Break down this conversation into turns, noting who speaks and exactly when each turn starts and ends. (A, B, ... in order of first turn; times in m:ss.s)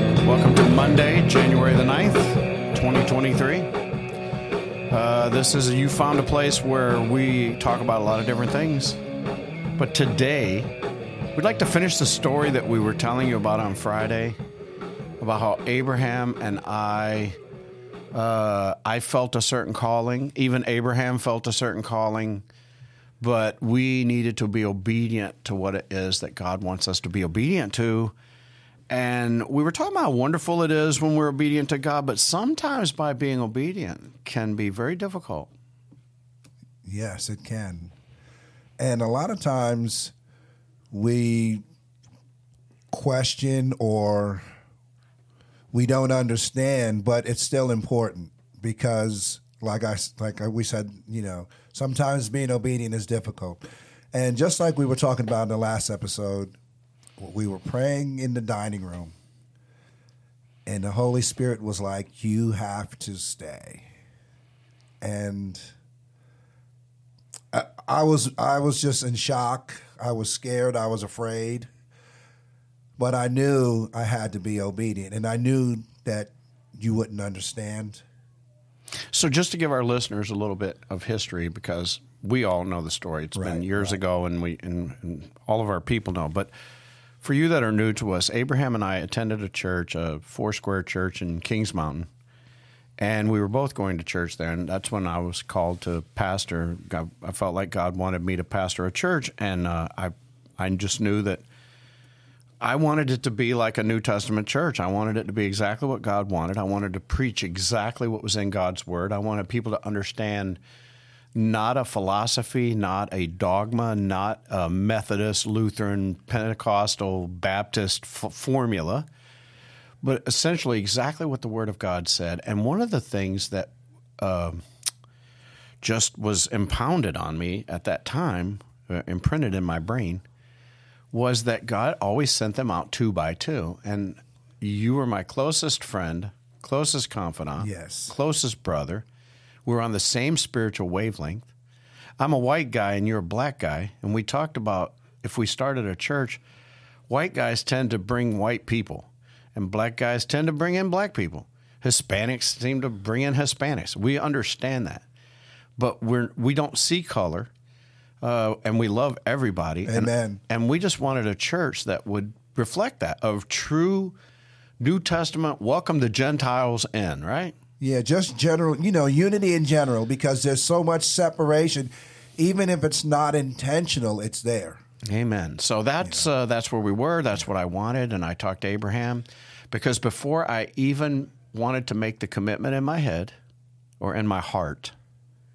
0:00.2-0:03.7 A
0:04.9-0:09.0 A
0:09.8-0:10.7 A
0:11.4-0:14.4 A
0:15.2-0:17.4 A
0:18.1-0:22.4 A
0:23.2-0:28.1 A
0:28.9-0:35.5 A
0:36.8-0:37.9 B
0:38.8-0:40.1 B
0:40.9-0:41.6 B
0:42.9-0:44.4 B
0:45.7-0:53.6 B
0:54.1-0:56.6 B
0:57.2-0:59.1 B
1:00.7-1:03.9 B
1:05.0-1:05.6 B
1:07.5-1:11.7 B
1:13.0-1:18.0 B
1:19.1-1:26.5 A
1:23.4-1:24.0 B
1:27.2-1:32.1 A
1:33.0-1:41.4 A
1:42.6-1:50.6 A
1:51.3-1:59.1 A
2:00.0-2:04.6 A
2:05.8-2:10.2 A
2:11.1-2:19.0 A
2:17.6-2:18.1 B
2:19.7-2:21.5 A
2:22.2-2:26.4 A
2:27.1-2:35.0 A
2:35.8-2:37.5 A
2:38.2-2:44.2 A
2:39.9-2:40.4 B
2:44.8-2:47.6 A
2:47.8-2:54.8 B
2:55.1-3:03.3 A
2:56.0-2:56.3 B
3:04.0-3:04.9 A